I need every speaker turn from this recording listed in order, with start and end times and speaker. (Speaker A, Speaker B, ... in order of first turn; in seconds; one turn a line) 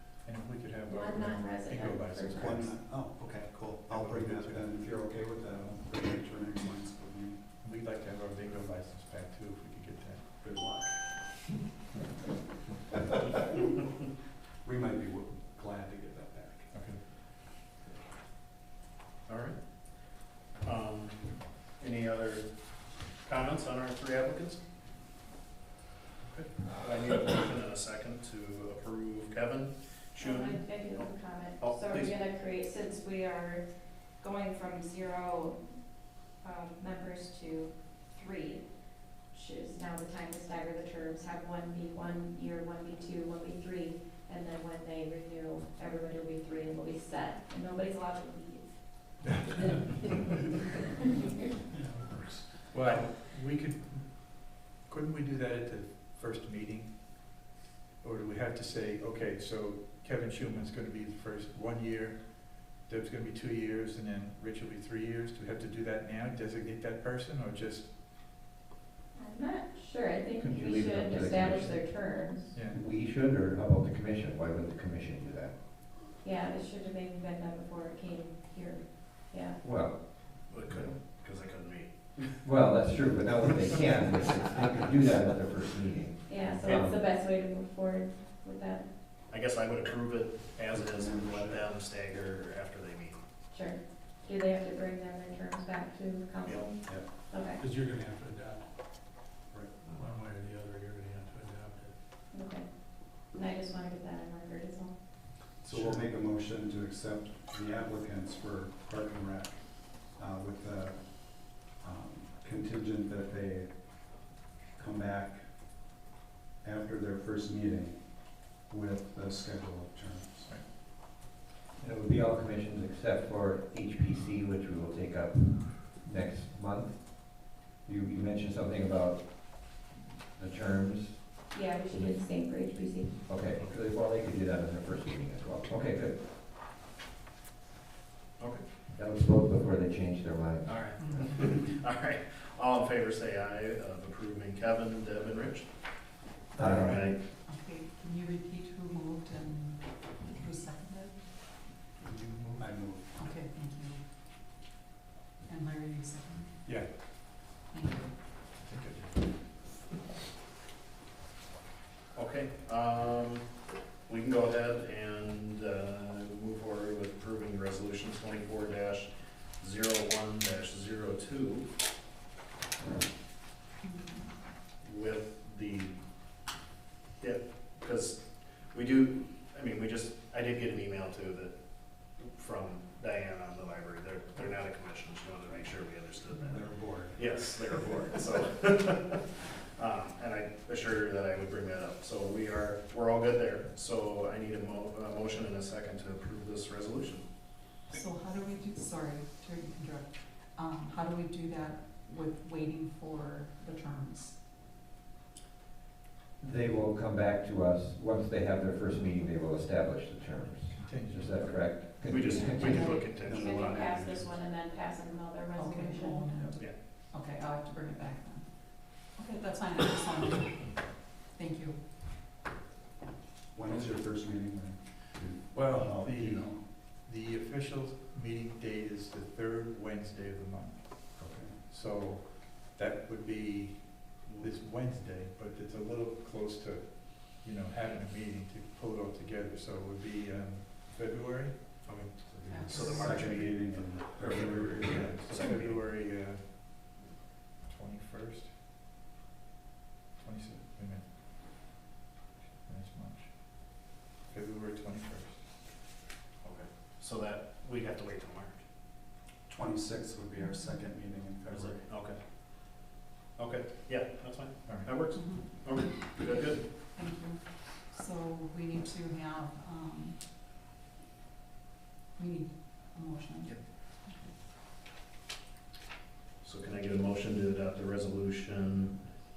Speaker A: 0.2-2.8
Speaker B: 0.9-2.5
Speaker C: 2.3-7.4
Speaker A: 3.9-4.6
Speaker A: 7.6-10.4
Speaker C: 10.4-11.4
Speaker C: 14.6-16.9
Speaker A: 16.7-17.0
Speaker D: 19.3-24.6
Speaker D: 26.2-32.1
Speaker B: 30.2-35.6
Speaker B: 36.4-38.7
Speaker B: 39.3-49.1
Speaker D: 51.7-52.5
Speaker A: 52.7-57.4
Speaker A: 58.0-67.9
Speaker B: 69.1-72.5
Speaker E: 70.4-71.8
Speaker A: 72.5-72.8
Speaker E: 72.5-75.5
Speaker B: 76.2-79.6
Speaker E: 79.6-80.9
Speaker D: 80.4-82.5
Speaker E: 82.4-86.9
Speaker B: 86.3-88.9
Speaker D: 89.3-93.2
Speaker C: 90.7-91.6
Speaker B: 93.5-97.6
Speaker D: 96.4-97.0
Speaker C: 96.8-97.3
Speaker C: 99.5-99.8
Speaker D: 99.9-101.9
Speaker B: 102.3-104.9
Speaker C: 105.6-115.5
Speaker C: 116.6-120.5
Speaker E: 121.8-132.1
Speaker B: 131.5-133.2
Speaker E: 133.2-136.2
Speaker E: 138.9-140.8
Speaker D: 140.6-145.7
Speaker E: 146.6-147.2
Speaker A: 146.6-147.0
Speaker D: 146.6-147.2
Speaker F: 147.4-151.2
Speaker A: 152.0-152.7
Speaker C: 152.6-153.1
Speaker F: 153.1-154.0
Speaker F: 155.4-156.8
Speaker A: 156.6-156.9
Speaker F: 157.7-158.1
Speaker A: 158.6-159.3
Speaker D: 162.1-163.4
Speaker D: 164.1-169.1
Speaker D: 169.6-171.7
Speaker F: 173.8-174.3
Speaker D: 174.8-175.9
Speaker D: 177.2-197.2
Speaker C: 186.4-187.4
Speaker F: 197.9-204.4
Speaker E: 206.4-213.1
Speaker A: 210.8-211.7
Speaker D: 212.1-214.3
Speaker B: 212.3-216.3
Speaker C: 213.1-213.7
Speaker F: 215.5-221.8
Speaker C: 223.5-226.6
Speaker A: 225.5-241.8
Speaker C: 231.2-231.5
Speaker D: 241.8-245.8
Speaker C: 242.4-245.1
Speaker F: 242.5-243.2
Speaker A: 244.7-247.0
Speaker A: 247.6-248.6
Speaker A: 250.2-251.1
Speaker A: 252.6-255.4
Speaker D: 256.4-258.6
Speaker C: 259.5-261.8
Speaker F: 260.4-260.9
Speaker D: 261.4-262.2
Speaker D: 263.4-266.6
Speaker A: 264.6-264.9
Speaker F: 265.1-270.2
Speaker F: 272.1-274.3
Speaker D: 276.4-279.0